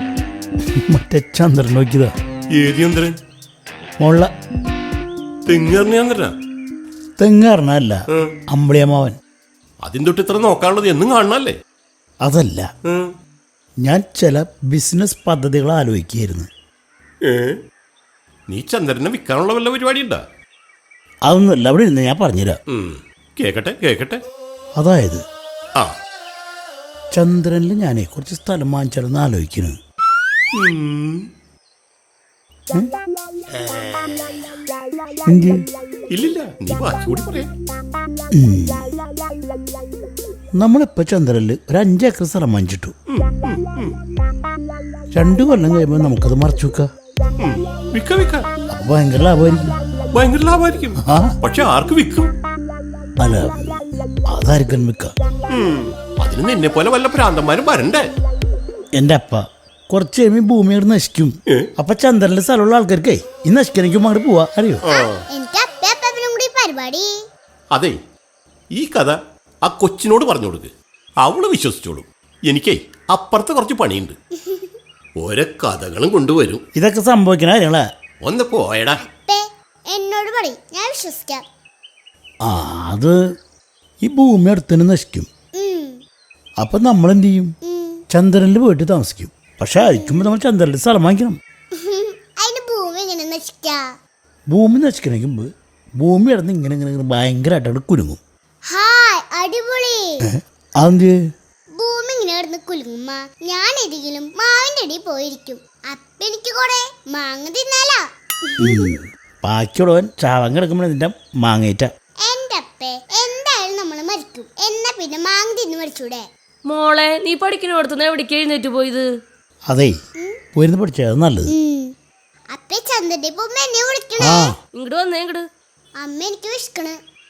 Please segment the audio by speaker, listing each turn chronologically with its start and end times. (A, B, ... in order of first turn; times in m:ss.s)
0:00.8-0:02.1 A
0:02.6-0:03.1 B
0:04.0-0:04.3 A
0:05.5-0:06.3 B
0:07.2-0:09.2 A
0:09.9-0:11.5 B
0:12.2-0:12.7 A
0:13.8-0:16.5 A
0:18.5-0:20.2 B
0:21.3-0:22.6 A
0:22.7-0:24.2 B
0:24.8-0:25.2 A
0:27.2-0:29.8 A
0:35.3-0:35.6 A
0:36.2-0:37.5 B
0:38.3-0:39.0 A
0:40.6-0:42.9 A
0:43.1-0:43.9 B
0:45.2-0:46.9 A
0:47.4-0:48.4 B
0:48.7-0:49.8 A
0:50.2-0:52.3 B
0:51.0-0:51.3 A
0:53.2-0:55.1 A
0:55.5-0:58.0 B
0:59.0-1:04.8 A
1:04.9-1:07.1 C
1:08.8-1:10.7 B
1:11.3-1:14.1 B
1:15.2-1:16.6 B
1:16.8-1:17.8 A
1:18.2-1:19.0 B
1:19.0-1:21.4 C
1:22.5-1:23.2 A
1:24.0-1:25.3 A
1:25.6-1:26.0 C
1:26.6-1:27.5 A
1:27.7-1:28.0 C
1:28.1-1:31.4 A
1:29.8-1:30.3 C
1:31.8-1:33.8 C
1:34.5-1:35.5 A
1:36.0-1:38.2 A
1:38.7-1:40.0 C
1:40.8-1:41.1 A
1:41.8-1:48.9 C
1:48.6-1:51.9 A
1:52.3-1:56.2 C
1:56.7-1:59.1 D
1:59.7-1:59.9 A
2:00.6-2:01.5 A
2:01.5-2:01.8 C
2:02.5-2:04.5 C
2:04.2-2:04.5 A
2:04.8-2:05.4 D
2:06.0-2:07.0 C